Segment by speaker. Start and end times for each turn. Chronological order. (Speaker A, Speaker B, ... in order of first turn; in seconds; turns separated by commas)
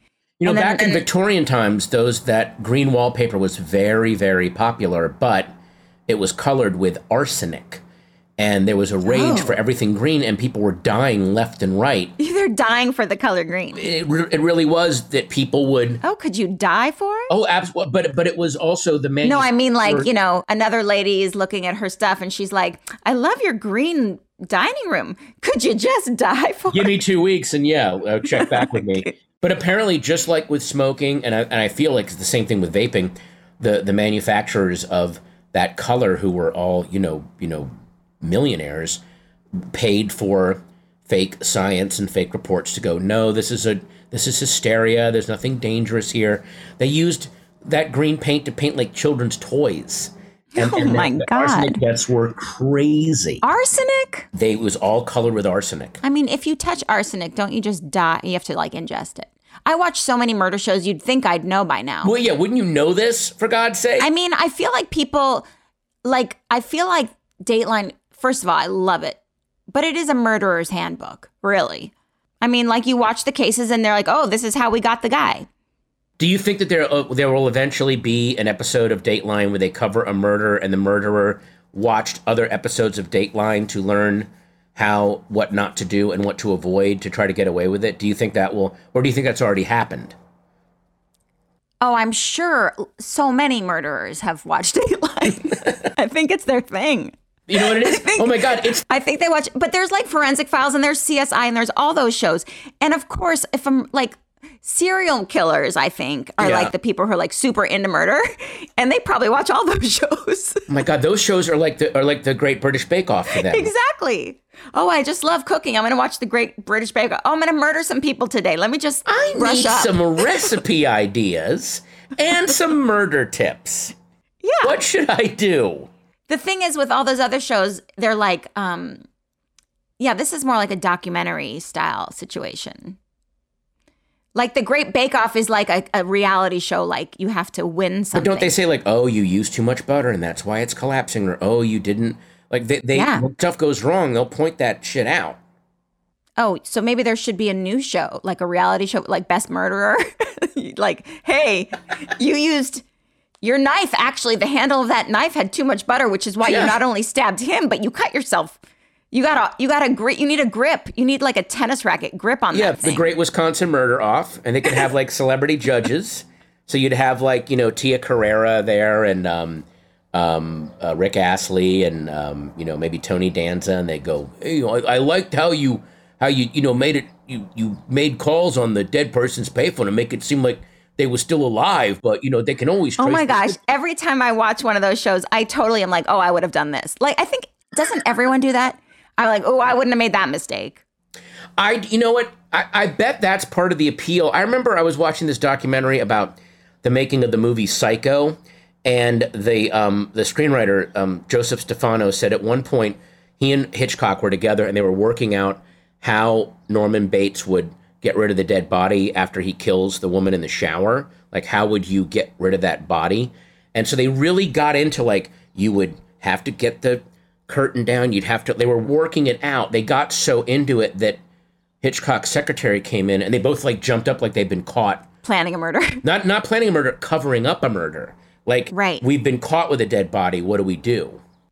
Speaker A: 0.4-5.5, Speaker B: 0.4-1.0, Speaker A: 6.1-7.8, Speaker A: 8.4-12.1, Speaker B: 9.1-9.6, Speaker B: 12.2-13.9, Speaker A: 13.7-16.0, Speaker B: 16.0-17.3, Speaker A: 17.3-20.1, Speaker B: 19.2-27.0, Speaker A: 26.7-37.7, Speaker B: 28.3-29.1, Speaker A: 38.2-39.0, Speaker A: 39.7-53.4, Speaker B: 50.5-51.8, Speaker B: 53.4-54.3, Speaker A: 54.3-56.0, Speaker B: 56.0-62.1, Speaker A: 62.0-64.1, Speaker B: 64.0-65.4, Speaker B: 66.0-69.2, Speaker B: 69.7-75.5, Speaker A: 76.2-90.1, Speaker B: 91.8-110.6, Speaker A: 97.5-98.8, Speaker A: 106.4-106.7, Speaker A: 110.7-113.7, Speaker B: 113.3-120.4, Speaker A: 119.0-123.9, Speaker B: 124.4-124.7, Speaker A: 124.6-125.9, Speaker B: 126.3-129.0, Speaker B: 130.0-133.0, Speaker B: 134.3-138.5, Speaker A: 138.1-145.4, Speaker B: 142.9-143.2, Speaker B: 146.4-152.8, Speaker B: 153.4-158.6, Speaker A: 156.4-156.8, Speaker B: 159.1-163.0, Speaker A: 162.5-183.6, Speaker B: 183.0-190.8, Speaker A: 191.6-221.2, Speaker A: 221.8-225.1, Speaker B: 225.2-226.0, Speaker A: 226.0-231.2, Speaker B: 228.7-229.0